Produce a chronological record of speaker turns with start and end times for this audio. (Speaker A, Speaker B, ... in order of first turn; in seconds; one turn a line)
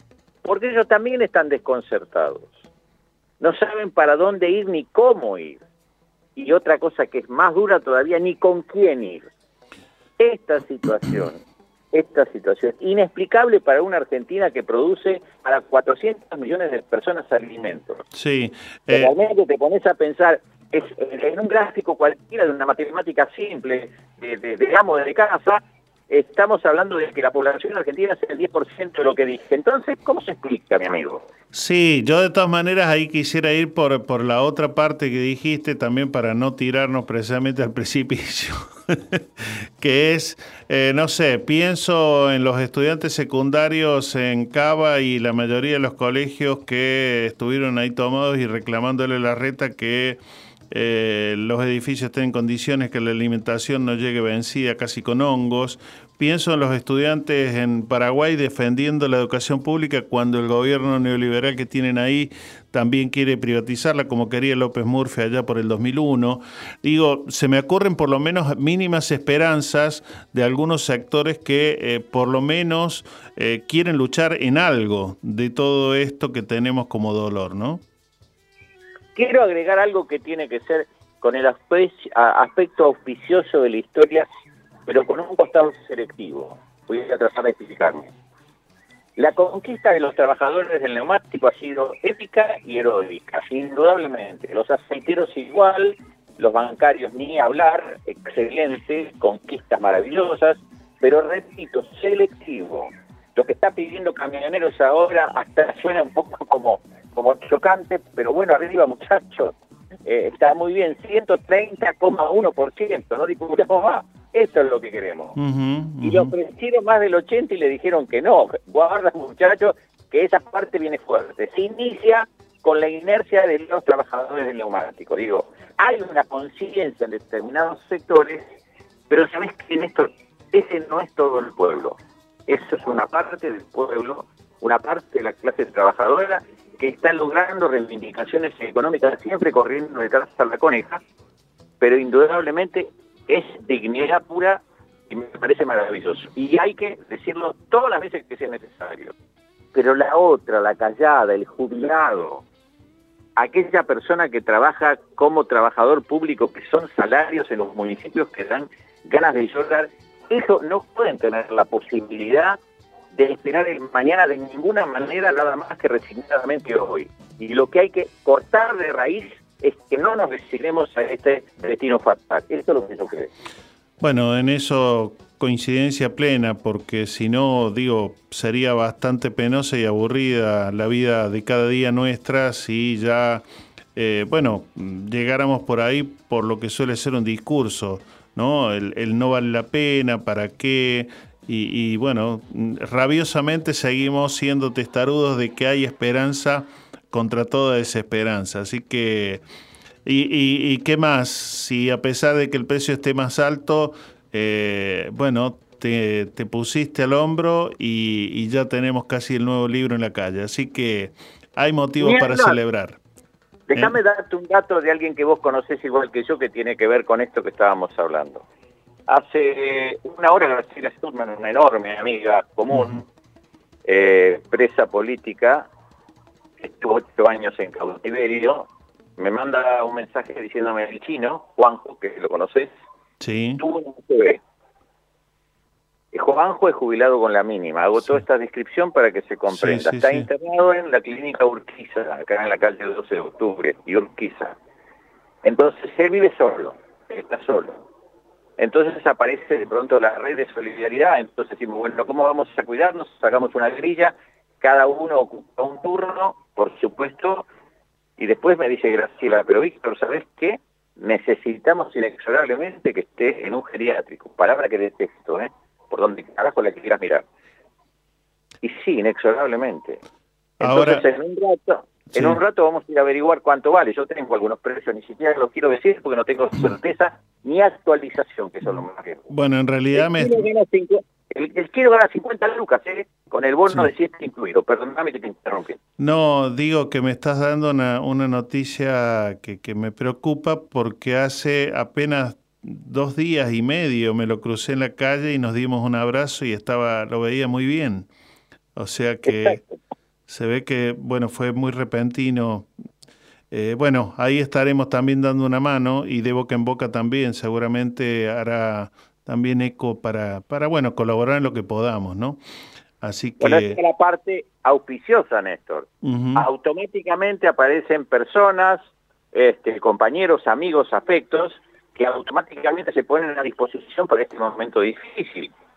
Speaker A: 0.4-2.5
Speaker A: 3.4-5.6
Speaker A: 6.4-9.3
Speaker A: 10.2-11.4
Speaker A: 11.9-18.0
Speaker B: 18.1-19.1
Speaker A: 18.9-31.3
Speaker B: 31.5-50.2
Speaker B: 50.7-77.8
Speaker A: 79.2-84.3
Speaker A: 84.9-88.1
Speaker A: 89.2-109.5
Speaker A: 110.0-115.3
Speaker B: 115.4-116.3
Speaker A: 116.0-128.4
Speaker A: 129.1-141.0
Speaker A: 141.8-149.1
Speaker A: 149.7-152.4
Speaker A: 153.4-162.6
Speaker A: 163.1-173.3
Speaker B: 174.0-183.4
Speaker B: 184.0-199.4
Speaker B: 200.1-213.0
Speaker A: 212.0-212.6
Speaker A: 213.7-218.4
Speaker A: 219.1-223.0
Speaker B: 222.7-223.0
Speaker A: 223.8-225.7
Speaker A: 226.6-232.7
Speaker B: 233.2-233.6
Speaker A: 233.6-234.4
Speaker A: 236.1-244.6
Speaker B: 239.5-240.3
Speaker A: 245.4-247.8
Speaker A: 248.6-257.5
Speaker A: 258.2-267.2
Speaker A: 268.6-270.0
Speaker B: 270.6-271.1
Speaker A: 270.6-279.3
Speaker B: 272.1-272.4
Speaker B: 279.3-280.4
Speaker A: 279.9-285.8
Speaker B: 286.0-298.1
Speaker B: 298.8-299.6
Speaker A: 299.3-299.6
Speaker B: 300.3-302.7
Speaker B: 303.5-312.4
Speaker B: 313.0-313.8
Speaker A: 313.4-325.5
Speaker B: 316.0-316.5